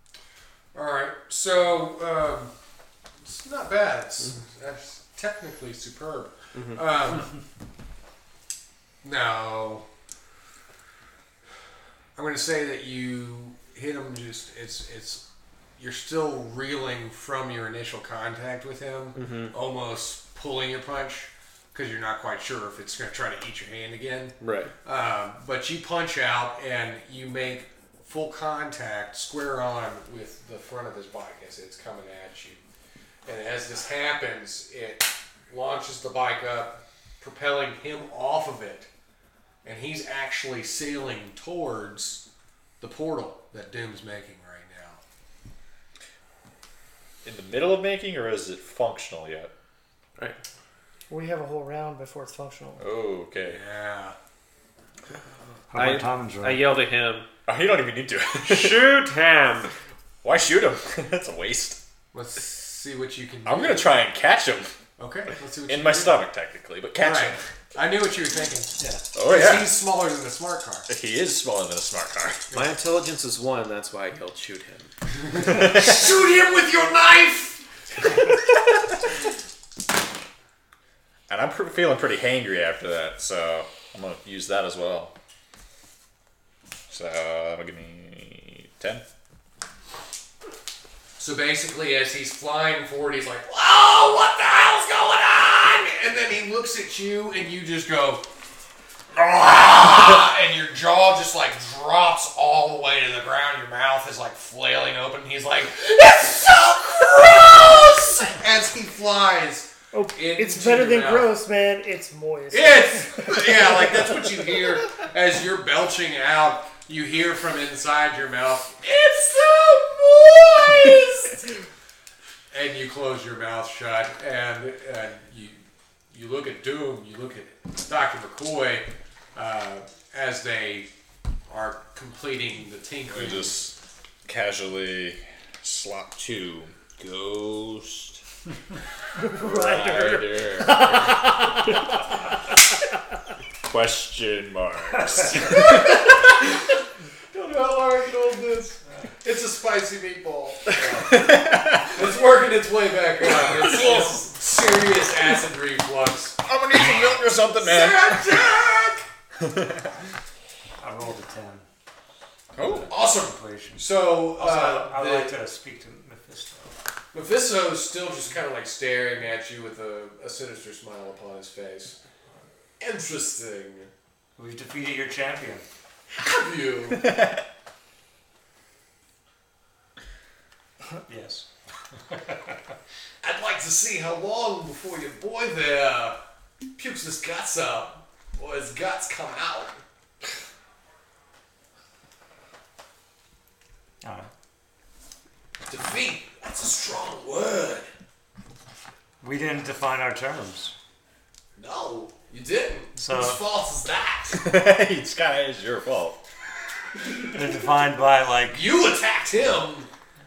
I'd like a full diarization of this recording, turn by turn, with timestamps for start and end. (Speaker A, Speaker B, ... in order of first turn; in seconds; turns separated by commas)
Speaker A: 0.7-2.5, Speaker A: 3.2-7.3, Speaker B: 6.5-6.8, Speaker A: 9.0-9.8, Speaker A: 12.2-15.2, Speaker A: 15.8-32.6, Speaker B: 19.1-19.5, Speaker B: 24.4-24.7, Speaker A: 33.2-38.9, Speaker A: 39.6-42.2, Speaker A: 42.8-45.0, Speaker C: 47.2-49.5, Speaker D: 51.1-52.8, Speaker C: 52.8-53.6, Speaker A: 53.4-54.2, Speaker E: 55.7-56.7, Speaker B: 55.7-57.3, Speaker C: 57.5-58.9, Speaker B: 58.5-59.7, Speaker C: 60.2-61.8, Speaker A: 62.1-64.0, Speaker C: 63.4-64.7, Speaker A: 65.0-66.2, Speaker C: 65.7-67.4, Speaker A: 67.0-70.9, Speaker C: 69.1-69.8, Speaker C: 70.9-72.4, Speaker B: 72.5-74.9, Speaker A: 75.3-78.3, Speaker C: 75.5-75.9, Speaker C: 81.3-85.1, Speaker C: 86.9-89.0, Speaker A: 91.2-98.2, Speaker A: 99.1-111.3, Speaker D: 109.9-113.3, Speaker A: 112.5-121.6, Speaker A: 122.5-125.6, Speaker A: 126.1-130.9, Speaker A: 131.5-133.6, Speaker C: 133.1-138.2, Speaker D: 139.2-142.0, Speaker C: 139.3-141.9, Speaker C: 143.7-146.4, Speaker A: 145.5-146.1, Speaker A: 147.3-159.1, Speaker C: 151.1-152.0, Speaker C: 153.4-154.2, Speaker C: 156.4-158.4, Speaker C: 159.4-159.8, Speaker E: 160.8-161.7, Speaker C: 162.6-162.9, Speaker E: 162.6-166.8, Speaker A: 162.9-165.4, Speaker A: 167.1-172.0, Speaker A: 172.8-173.9, Speaker E: 174.4-175.7, Speaker A: 176.1-177.1, Speaker C: 176.9-177.4, Speaker E: 181.1-181.4, Speaker E: 182.1-182.5, Speaker A: 183.2-186.2, Speaker A: 186.8-189.8, Speaker E: 194.0-194.3, Speaker A: 195.7-197.9, Speaker E: 199.2-200.7, Speaker A: 201.6-204.4, Speaker E: 202.9-203.4, Speaker C: 204.3-206.2, Speaker E: 207.3-208.6, Speaker A: 208.5-209.9